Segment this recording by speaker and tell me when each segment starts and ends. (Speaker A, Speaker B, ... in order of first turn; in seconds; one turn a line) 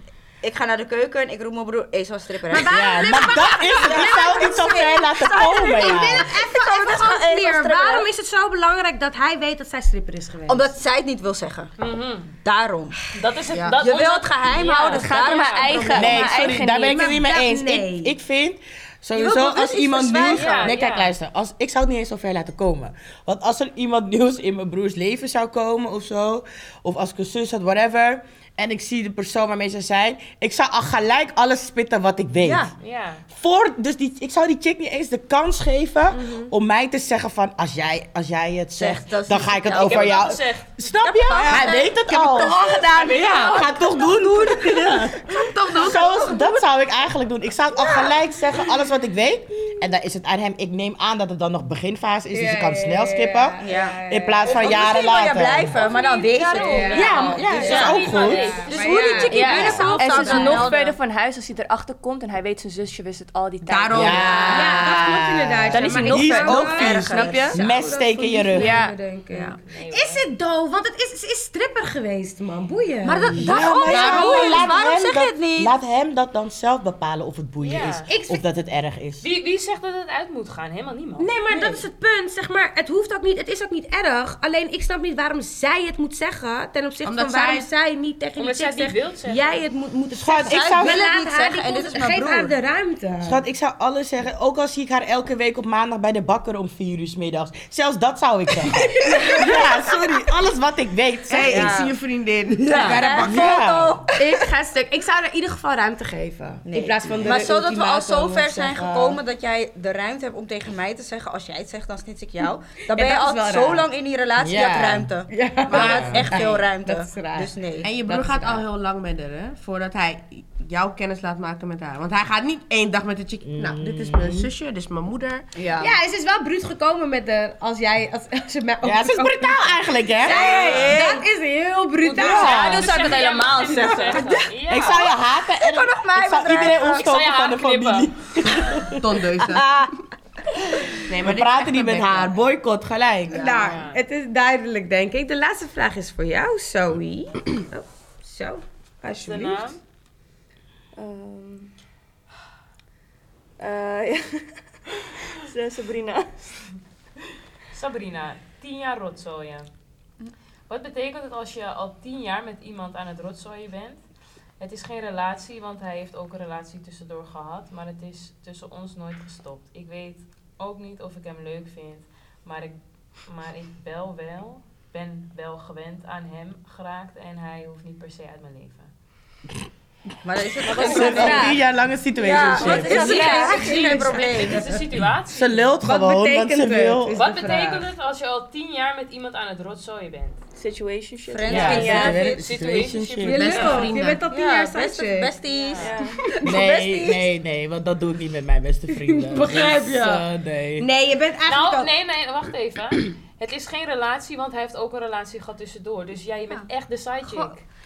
Speaker A: 0.4-8.1
Speaker B: 2.5-10.7
Speaker C: 2.6-6.3
Speaker A: 10.5-11.7
Speaker D: 11.8-12.3
Speaker A: 12.3-12.9
Speaker D: 13.1-15.9
Speaker A: 13.5-16.3
Speaker E: 14.5-17.1
Speaker C: 15.9-32.7
Speaker B: 16.1-18.1
Speaker A: 19.1-20.8
Speaker D: 20.3-21.1
Speaker A: 32.4-32.7
Speaker D: 32.8-33.2
Speaker C: 33.3-55.8
Speaker B: 36.1-36.5
Speaker A: 38.8-40.3
Speaker D: 39.7-40.8
Speaker A: 40.9-42.0
Speaker F: 42.1-43.7
Speaker B: 42.7-43.3
Speaker A: 42.7-46.5
Speaker F: 45.3-46.2
Speaker A: 47.7-48.2
Speaker B: 52.3-54.7
Speaker A: 53.6-61.0
Speaker E: 55.8-57.7
Speaker D: 55.8-58.9
Speaker B: 56.4-60.7
Speaker C: 56.9-58.5
Speaker E: 59.2-64.7
Speaker C: 59.4-60.0
Speaker F: 63.6-64.7
Speaker B: 63.9-74.7
Speaker C: 63.9-68.8
Speaker E: 65.7-67.5
Speaker A: 66.6-67.4
Speaker E: 68.5-68.9
Speaker D: 69.3-70.3
Speaker A: 73.0-75.8
Speaker C: 73.3-79.3
Speaker D: 77.6-78.1
Speaker B: 78.1-78.4
Speaker D: 79.2-81.3
Speaker B: 81.2-93.4
Speaker A: 81.5-81.8
Speaker F: 87.0-87.7
Speaker D: 88.4-89.6
Speaker C: 90.1-91.0
Speaker A: 90.4-92.5
Speaker C: 93.2-101.8
Speaker B: 99.0-99.6
Speaker F: 101.3-103.5
Speaker A: 101.4-101.9
Speaker A: 102.6-104.4
Speaker C: 103.2-104.1
Speaker B: 104.2-109.1
Speaker A: 106.7-118.0
Speaker C: 107.0-107.5
Speaker B: 112.8-113.9
Speaker C: 114.4-115.1
Speaker B: 115.3-118.6
Speaker C: 115.7-116.3
Speaker F: 115.7-116.2
Speaker F: 117.8-125.5
Speaker C: 123.4-124.5
Speaker A: 125.5-125.9
Speaker B: 125.8-132.8
Speaker C: 128.8-130.9
Speaker A: 130.2-131.2
Speaker D: 130.5-130.9
Speaker D: 132.0-135.1
Speaker C: 132.2-132.9
Speaker E: 132.2-134.4
Speaker A: 133.7-137.1
Speaker C: 134.7-139.9
Speaker D: 136.8-138.6
Speaker F: 138.9-139.7
Speaker C: 140.5-143.6
Speaker F: 141.1-142.3
Speaker B: 143.3-149.7
Speaker A: 143.3-143.7
Speaker D: 143.6-144.0
Speaker D: 149.1-149.8
Speaker E: 151.0-151.7
Speaker E: 153.6-156.5
Speaker D: 157.7-159.7
Speaker D: 160.7-164.0
Speaker D: 164.6-178.9
Speaker A: 180.2-181.6
Speaker C: 180.7-183.0
Speaker B: 180.7-181.6
Speaker D: 180.7-181.3
Speaker A: 182.1-184.8
Speaker E: 182.6-183.9
Speaker B: 182.6-184.2
Speaker D: 182.7-185.7
Speaker C: 185.0-187.2
Speaker B: 185.8-187.9
Speaker D: 187.1-190.4
Speaker E: 190.6-192.2
Speaker A: 191.3-192.5
Speaker C: 191.4-193.7
Speaker D: 191.5-193.9
Speaker B: 191.6-191.9
Speaker B: 193.2-195.3
Speaker F: 193.3-194.2
Speaker A: 194.2-197.3
Speaker D: 195.5-196.0
Speaker E: 195.8-196.2
Speaker C: 196.4-200.8
Speaker B: 198.9-200.3
Speaker B: 200.8-201.9
Speaker D: 201.5-207.6